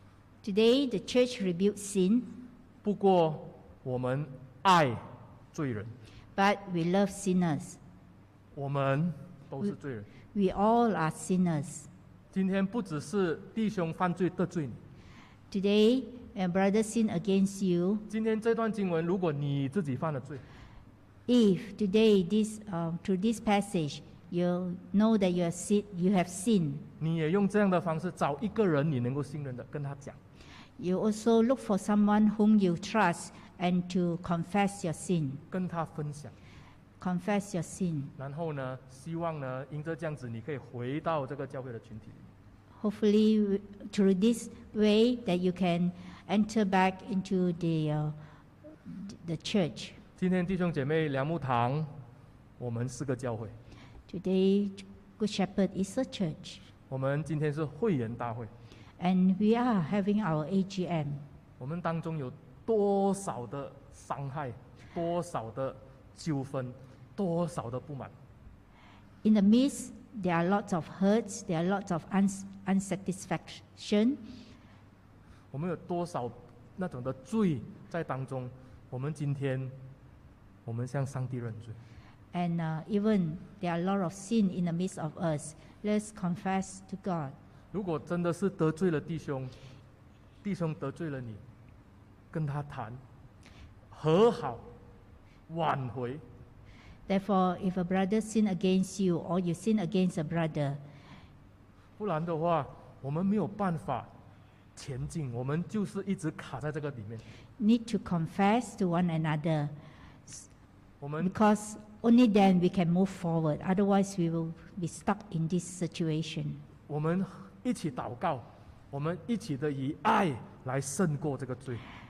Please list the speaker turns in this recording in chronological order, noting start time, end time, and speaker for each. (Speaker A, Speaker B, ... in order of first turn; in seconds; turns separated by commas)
Speaker A: 0.4-2.3, Speaker B: 2.8-5.0, Speaker B: 5.5-5.9, Speaker A: 6.3-7.8, Speaker B: 8.6-10.1, Speaker A: 10.3-11.9, Speaker B: 12.3-14.8, Speaker A: 15.5-18.0, Speaker B: 18.1-20.4, Speaker A: 21.3-26.9, Speaker B: 27.0-30.2, Speaker A: 30.8-35.4, Speaker B: 35.5-36.3, Speaker A: 37.0-38.1, Speaker B: 38.2-42.2, Speaker A: 42.8-48.1, Speaker A: 48.9-50.0, Speaker B: 50.2-51.9, Speaker B: 52.6-53.5, Speaker A: 54.1-56.6, Speaker B: 56.9-58.5, Speaker A: 59.0-61.2, Speaker B: 61.6-68.1, Speaker A: 69.2-74.2, Speaker B: 75.5-79.7, Speaker B: 80.7-81.8, Speaker A: 82.3-87.3, Speaker B: 87.7-89.5, Speaker B: 90.4-91.4, Speaker B: 92.3-93.0, Speaker B: 93.9-94.6, Speaker B: 95.5-96.2, Speaker A: 97.1-100.8, Speaker B: 102.0-104.1, Speaker B: 104.8-107.2, Speaker A: 107.6-109.7, Speaker B: 111.0-111.3, Speaker A: 111.2-116.6, Speaker B: 116.9-121.8